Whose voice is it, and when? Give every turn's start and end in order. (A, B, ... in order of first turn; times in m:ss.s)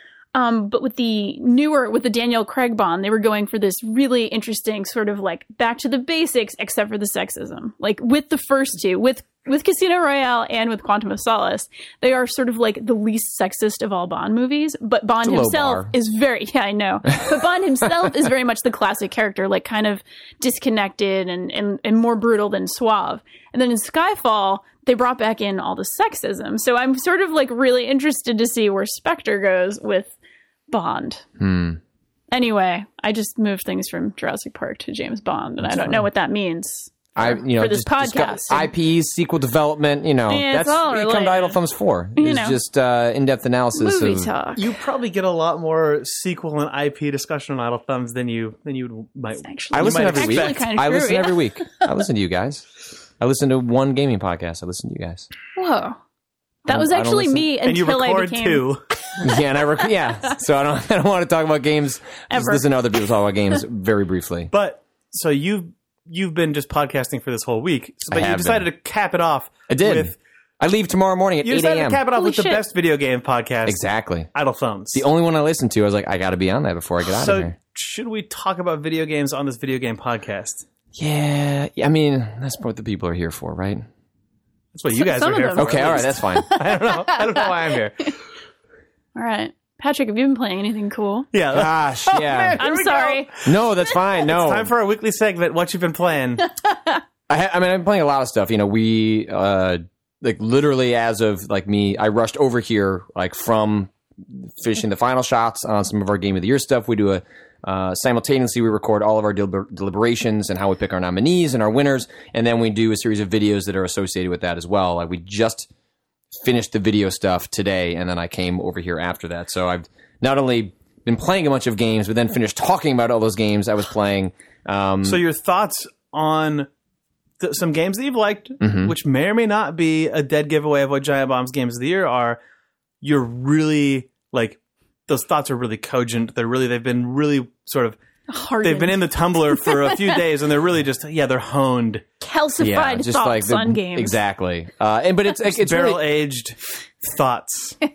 0:00.4-0:30.1 A
0:15.2-0:15.9 B
0:30.7-0:31.2 A
0:31.4-0:31.8 B
0:32.3-0:38.7 A
0:35.6-0:36.1 B
0:37.2-0:44.3 B
0:40.3-0:41.6 A
0:42.2-0:42.6 A
0:43.8-0:44.7 A
0:44.6-0:50.7 C
0:49.4-0:51.9 A
0:49.7-0:52.6 B
0:53.2-0:55.3 B
0:55.6-0:56.0 A
0:56.6-0:59.1 A
0:56.7-0:57.5 B
0:57.6-0:58.8 C
0:59.2-1:04.5 B
1:02.3-1:02.6 A
1:04.5-1:10.2 C
1:08.1-1:08.7 B
1:09.7-1:12.0 B
1:11.4-1:13.8 C
1:12.1-1:12.6 A
1:13.6-1:14.3 B
1:14.3-1:15.0 C
1:14.9-1:17.6 B
1:17.1-1:20.6 C
1:20.9-1:23.8 B
1:24.7-1:28.1 C
1:24.9-1:27.5 A
1:25.6-1:26.5 B
1:29.1-1:31.3 A
1:31.3-1:33.5 C
1:31.5-1:32.6 B
1:32.6-1:33.3 A
1:33.4-1:34.7 B
1:34.2-1:36.5 C
1:37.3-1:55.7 B
1:56.4-2:05.2 B
2:05.0-2:06.7 C
2:07.4-2:12.4 C
2:08.6-2:08.9 B
2:13.0-2:18.0 C
2:18.3-2:20.2 A
2:18.6-2:22.0 C
2:22.2-2:24.2 A
2:22.6-2:26.0 B
2:25.5-2:27.8 C